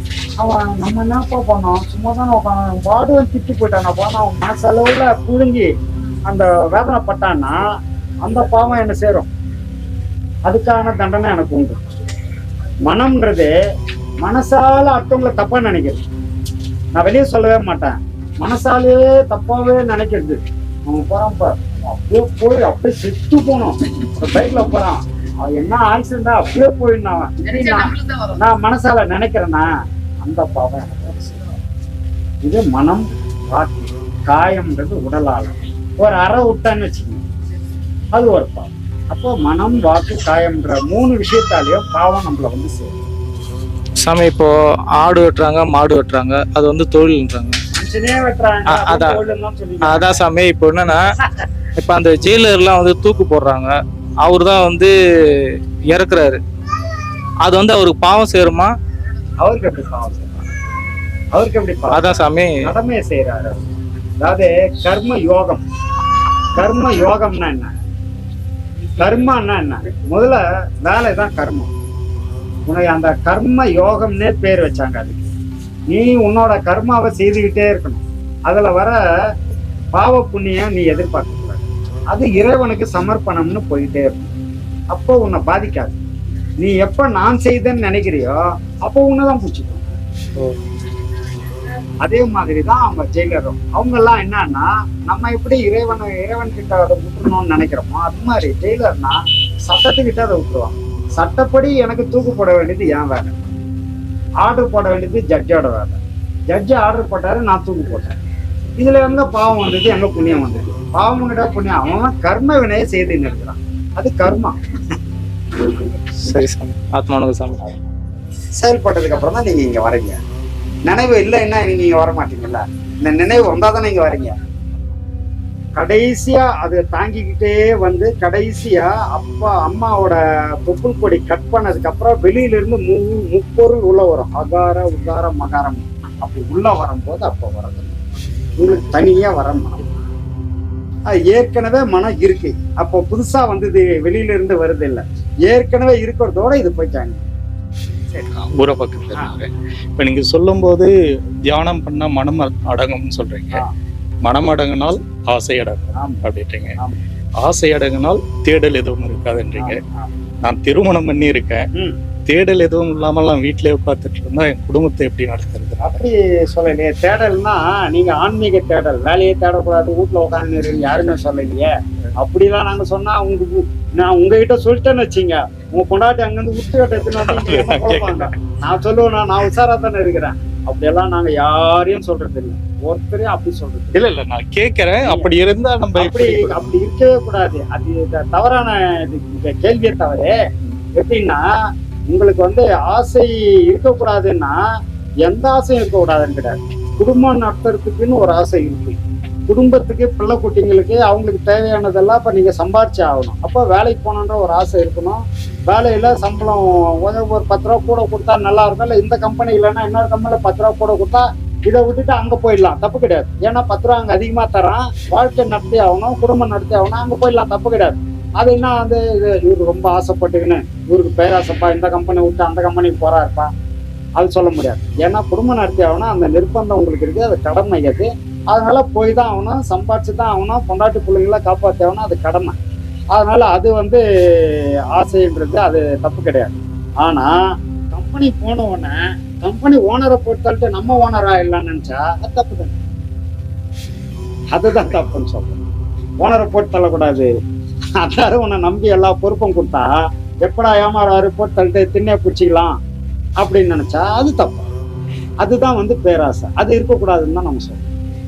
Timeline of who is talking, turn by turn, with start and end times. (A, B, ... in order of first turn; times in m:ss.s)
0:00.4-0:05.7 A
0:06.3-0:07.6 A
0:08.2-0:09.3 A
0:10.4-0:11.8 A
0:12.9-0:13.5 A
0:14.2-0:16.0 A
0:16.9-0:29.7 A
0:30.2-0:31.4 A
0:32.4-0:37.2 A
0:38.1-0:42.9 A
0:44.0-0:47.6 B
0:47.7-0:50.2 A
0:48.7-0:49.1 B
0:49.8-0:51.0 B
0:51.8-0:56.4 B
0:57.4-0:58.7 B
0:59.4-1:00.4 A
1:01.3-1:03.6 A
1:01.9-1:02.5 B
1:04.2-1:05.6 A
1:06.5-1:07.7 A
1:09.0-1:11.7 A
1:12.6-1:15.2 A
1:15.9-1:19.0 A
1:19.9-1:24.3 A
1:24.9-1:26.0 A
1:26.6-1:29.8 A
1:32.0-1:43.3 A
1:44.4-1:48.2 A
1:48.8-1:54.5 A
1:56.2-1:57.6 B
1:58.6-2:00.2 A
2:00.8-2:04.4 A
2:05.8-2:18.0 A
2:18.6-2:19.9 A
2:21.1-2:27.2 A
2:28.3-2:30.9 C
2:31.5-2:33.6 C
2:34.2-2:36.7 C
2:35.9-2:36.2 A
2:37.4-2:39.8 C
2:39.6-2:40.1 A
2:40.4-2:41.6 C
2:42.3-2:46.0 C
2:45.8-3:04.0 A
2:57.1-2:58.3 C
3:03.9-3:06.6 C
3:05.0-3:05.3 A
3:06.0-3:10.3 A
3:11.0-3:11.4 A
3:12.1-3:14.6 A
3:15.2-3:43.5 A
3:44.2-3:52.6 A
3:53.1-3:57.3 A
3:57.9-4:02.8 A
4:04.5-4:05.6 A
4:06.2-4:07.3 A
4:08.0-4:09.9 A
4:10.4-4:12.8 A
4:13.4-4:14.7 A
4:15.4-4:17.8 A